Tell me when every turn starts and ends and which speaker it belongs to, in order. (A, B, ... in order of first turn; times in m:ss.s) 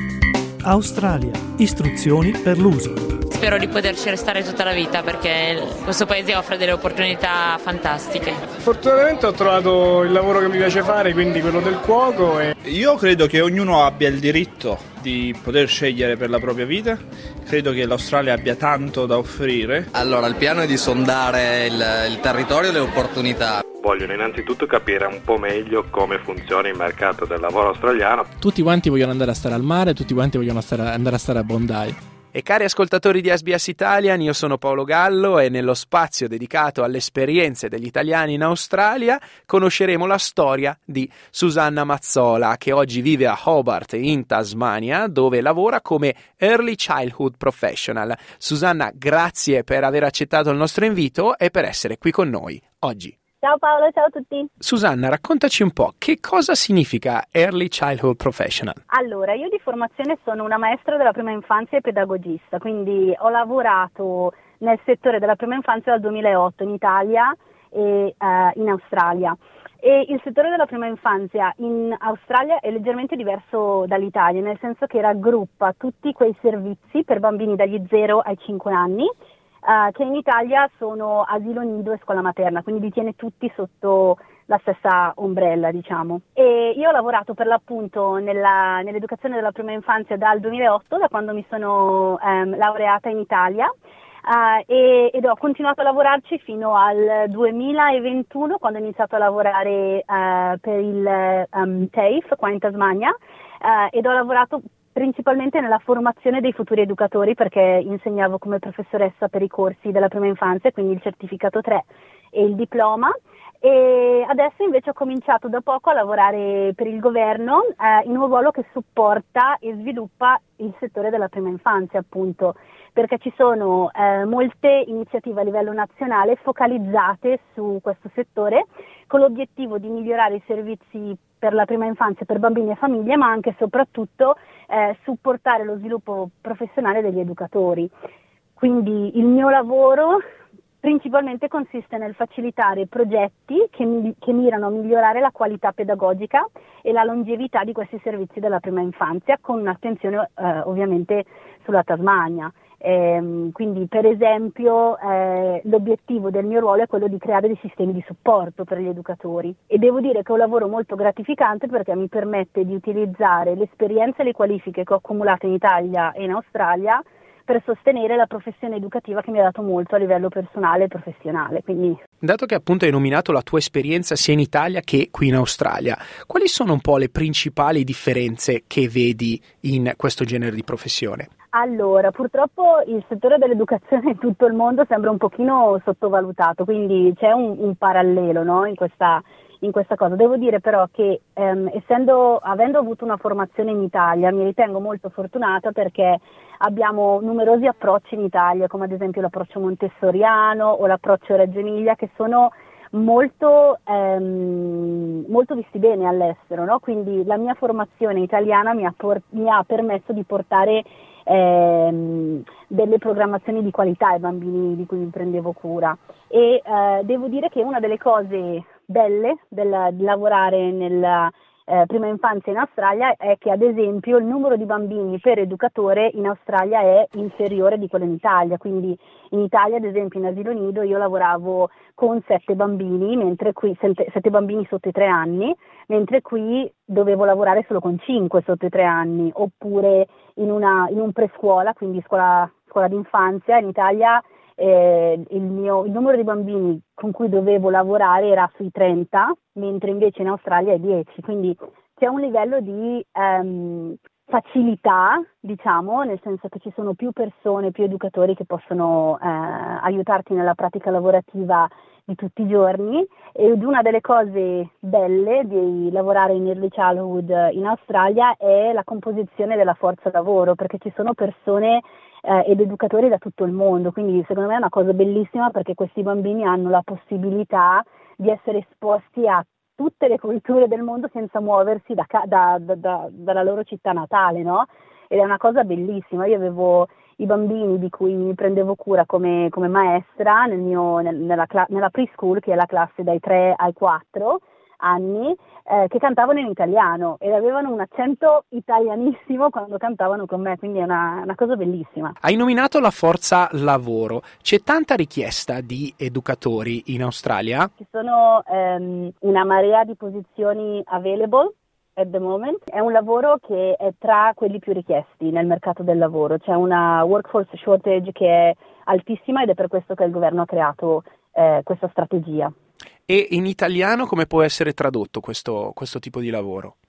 0:00.7-0:02.9 A
0:03.3-0:08.4 B
0:08.6-0:12.5 C
0:12.6-0:19.9 D
0:19.9-0:23.6 E
0:23.8-0:28.3 F
0:28.4-0:32.0 G
0:32.3-0:53.2 H
0:53.4-0:54.5 I
0:54.6-0:58.8 H
0:58.9-1:19.1 I
1:19.6-1:33.7 I
1:34.2-2:17.9 I
2:18.6-2:20.2 I
2:20.8-2:52.0 I
2:52.2-3:01.3 H
3:01.5-5:02.2 I
5:02.2-5:07.7 H
5:07.8-5:22.5 I
5:23.1-5:26.7 H